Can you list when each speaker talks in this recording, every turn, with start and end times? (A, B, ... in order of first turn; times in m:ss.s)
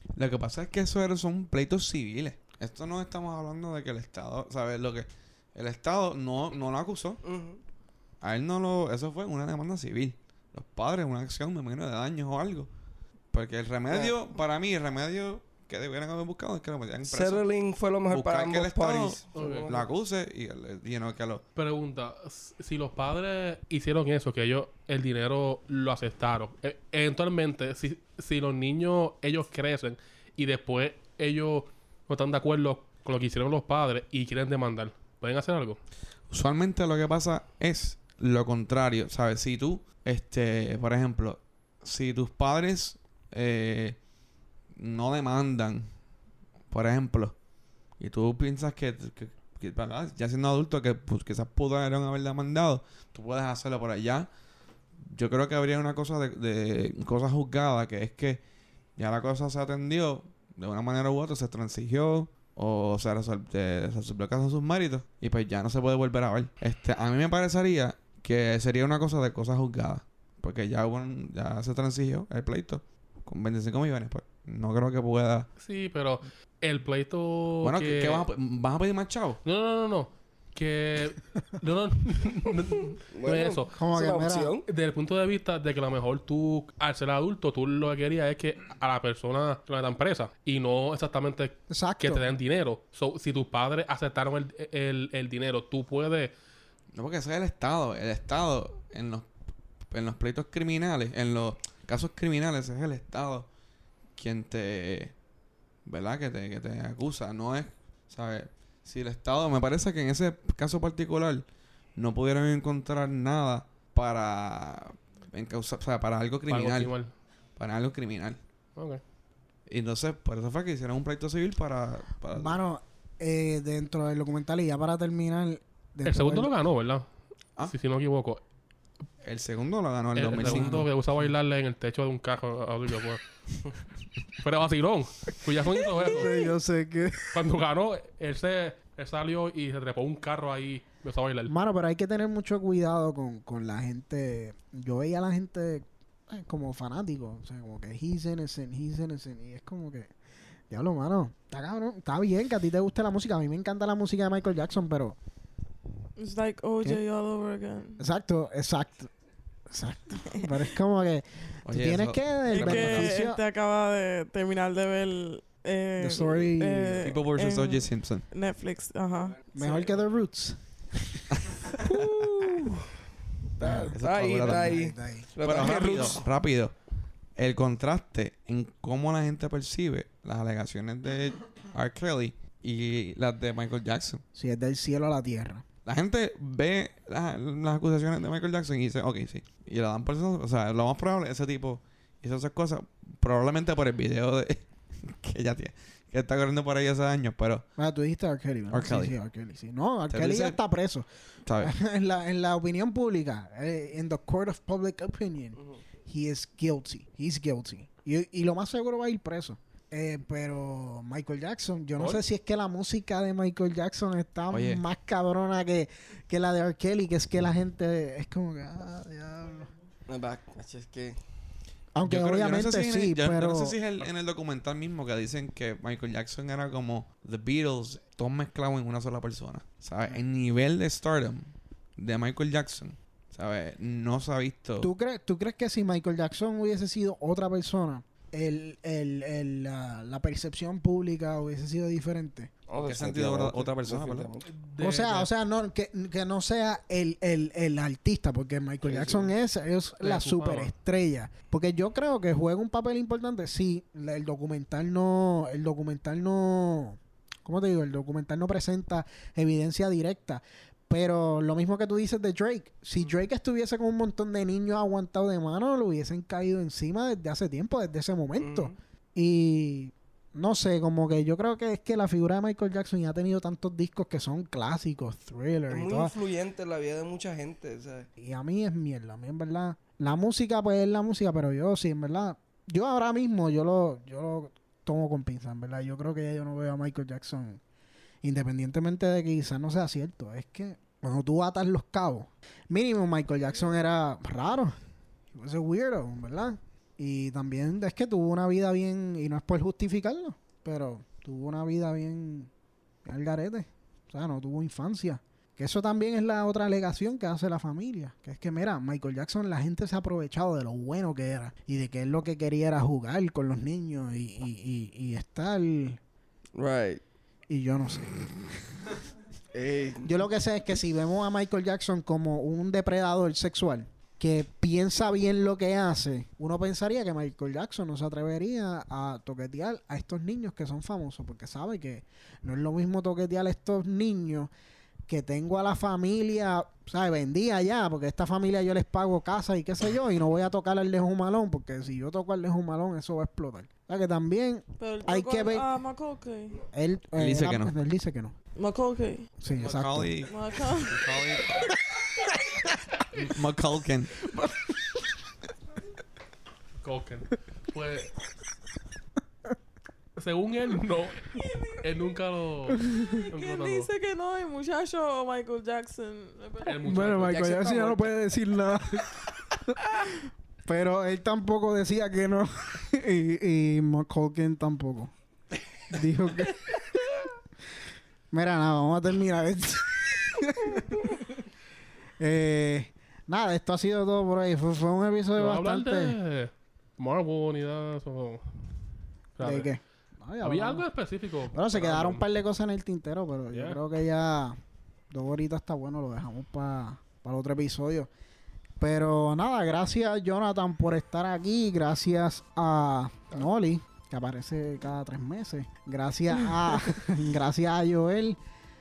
0:00.2-0:07.2 A
0:07.2-0:07.6 B
0:08.2-0:12.7 A
0:13.3-0:17.4 A
0:13.9-0:14.2 B
0:17.1-0:19.9 B
0:18.1-0:21.4 A
0:19.3-0:19.7 C
0:21.6-0:35.8 C
0:36.3-0:44.0 A
0:44.8-0:45.9 A
0:46.7-0:47.3 A
0:48.0-0:54.3 A
0:55.1-0:58.4 A
0:59.0-1:15.5 A
1:15.6-1:18.3 C
1:17.6-1:19.4 A
1:19.4-1:23.7 C
1:23.1-1:24.6 B
1:23.8-1:24.5 D
1:24.6-1:36.3 C
1:31.7-1:32.2 D
1:36.9-1:39.3 A
1:39.9-1:43.5 A
1:44.2-1:45.1 A
1:45.8-1:56.9 A
1:56.5-1:57.1 C
1:57.6-1:58.4 A
1:58.8-1:59.0 C
1:59.7-2:02.6 A
2:02.3-2:06.5 D
2:06.0-2:07.0 C
2:07.7-2:08.4 C
2:09.2-2:10.9 A
2:10.1-2:13.2 C
2:14.4-2:16.3 C
2:15.9-2:17.5 D
2:17.3-2:21.5 C
2:21.5-2:30.1 D
2:30.7-2:35.2 D
2:36.2-2:38.0 E
2:38.0-2:39.1 D
2:39.7-2:43.4 D
2:41.6-2:43.2 A
2:42.5-2:49.4 E
2:46.0-2:47.1 D
2:47.0-2:48.2 A
2:49.5-2:51.6 D
2:51.3-2:52.1 A
2:51.8-2:52.9 B
2:53.6-2:54.8 A
2:53.6-2:56.1 D
2:53.7-2:56.3 B
2:55.4-2:56.7 A
2:57.4-3:04.2 A
3:04.3-3:05.6 D
3:05.8-3:17.6 A
3:17.8-3:21.0 D
3:18.7-3:19.1 A
3:20.1-3:20.6 A
3:21.4-3:21.7 A
3:21.6-3:39.7 D
3:34.5-3:34.8 A
3:40.1-3:41.2 B
3:41.9-3:43.8 D
3:42.0-3:54.9 A
3:54.8-4:02.5 D
4:02.7-4:04.5 B
4:02.8-4:04.3 A
4:04.4-4:05.3 C
4:04.8-4:36.1 D
4:08.8-4:09.3 B
4:10.0-4:10.7 C
4:28.4-4:28.7 B
4:35.7-4:38.1 B
4:38.2-4:47.6 D
4:48.2-4:54.8 D
4:55.3-5:02.5 D
5:03.0-5:16.0 D
5:16.5-5:17.0 B
5:17.5-5:18.9 D
5:19.5-5:20.2 B
5:20.0-5:34.5 D
5:35.1-5:45.6 D
5:44.8-5:46.6 E
5:46.7-5:48.4 D
5:47.2-5:47.7 A
5:48.6-5:49.3 E
5:49.4-5:50.1 D
5:49.5-5:51.6 A
5:50.3-5:51.0 E
5:53.1-5:54.1 A
5:54.3-5:55.0 D
5:56.8-5:58.1 C
6:00.2-6:03.9 C
6:03.1-6:06.8 E
6:06.6-6:08.1 C
6:06.8-6:10.0 D
6:10.6-6:15.1 D
6:15.9-6:16.9 D
6:18.3-6:21.2 D
6:22.2-6:26.2 D
6:25.4-6:28.6 C
6:29.4-6:29.7 C
6:29.4-6:30.9 D
6:30.4-6:32.2 C
6:31.5-6:34.6 D
6:33.5-6:33.8 C
6:35.1-6:38.1 D
6:38.8-6:48.4 D